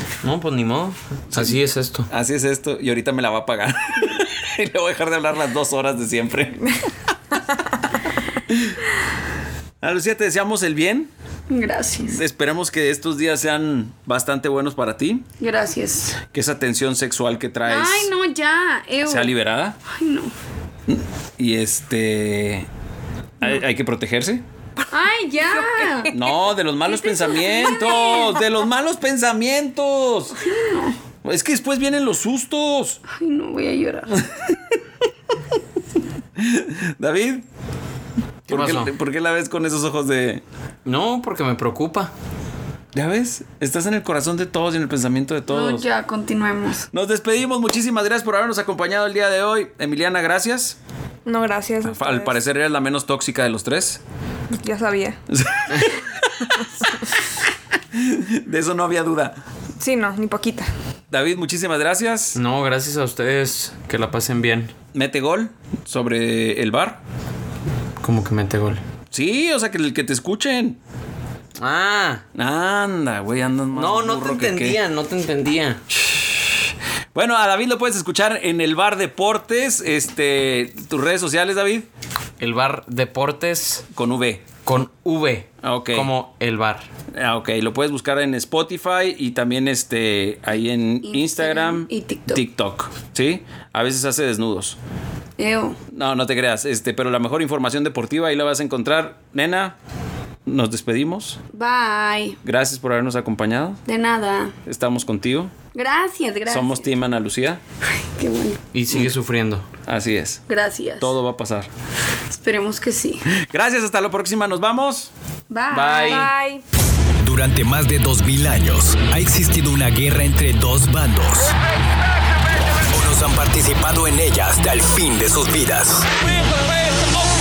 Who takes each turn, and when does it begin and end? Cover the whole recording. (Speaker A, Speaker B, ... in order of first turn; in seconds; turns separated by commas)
Speaker A: 0.2-2.1, Speaker B: 1.3-1.6, Speaker B: 2.1-6.7, Speaker B: 8.5-8.8, Speaker B: 9.8-11.1, Speaker C: 11.5-12.2, Speaker B: 12.1-15.2, Speaker C: 15.4-16.2, Speaker B: 16.3-18.1, Speaker C: 17.6-19.3, Speaker B: 19.0-19.8, Speaker C: 19.8-20.3, Speaker B: 20.9-22.7, Speaker B: 23.4-24.4, Speaker C: 24.9-26.1, Speaker D: 25.4-26.4, Speaker B: 26.1-30.4, Speaker D: 27.1-28.4, Speaker C: 27.2-28.1, Speaker C: 30.4-31.0, Speaker B: 31.2-33.0, Speaker C: 33.1-34.2, Speaker B: 34.1-34.8, Speaker B: 36.4-37.4, Speaker B: 38.5-40.4, Speaker A: 38.5-38.9, Speaker A: 40.8-42.1, Speaker B: 42.9-45.9, Speaker C: 45.5-46.9, Speaker B: 46.9-50.8, Speaker D: 51.2-52.4, Speaker B: 51.8-54.0, Speaker D: 54.5-55.2, Speaker B: 55.3-56.1, Speaker B: 57.9-59.4, Speaker D: 59.8-60.7, Speaker B: 61.1-62.4, Speaker A: 62.4-64.7, Speaker B: 64.9-67.0, Speaker A: 68.0-68.8, Speaker B: 69.1-70.8, Speaker A: 71.5-72.2, Speaker B: 72.3-74.8, Speaker A: 73.7-75.8, Speaker B: 76.0-76.3, Speaker B: 77.1-81.9, Speaker A: 82.4-83.8, Speaker B: 83.9-84.5, Speaker A: 84.6-86.9, Speaker B: 85.6-86.1, Speaker B: 87.2-94.8, Speaker C: 91.0-92.4, Speaker C: 95.4-95.8, Speaker B: 95.9-99.7, Speaker B: 100.4-101.4, Speaker C: 101.5-102.4, Speaker B: 102.4-103.8, Speaker C: 103.8-104.6, Speaker B: 104.7-105.5, Speaker C: 105.7-106.8, Speaker B: 106.5-107.6, Speaker C: 107.9-108.6, Speaker A: 108.7-109.6, Speaker B: 109.8-110.4, Speaker C: 110.5-111.1, Speaker B: 111.0-111.7, Speaker C: 112.3-113.3, Speaker B: 113.3-115.1, Speaker C: 115.5-116.3, Speaker A: 115.7-116.3, Speaker D: 116.0-116.6, Speaker E: 117.2-121.5, Speaker E: 122.9-126.6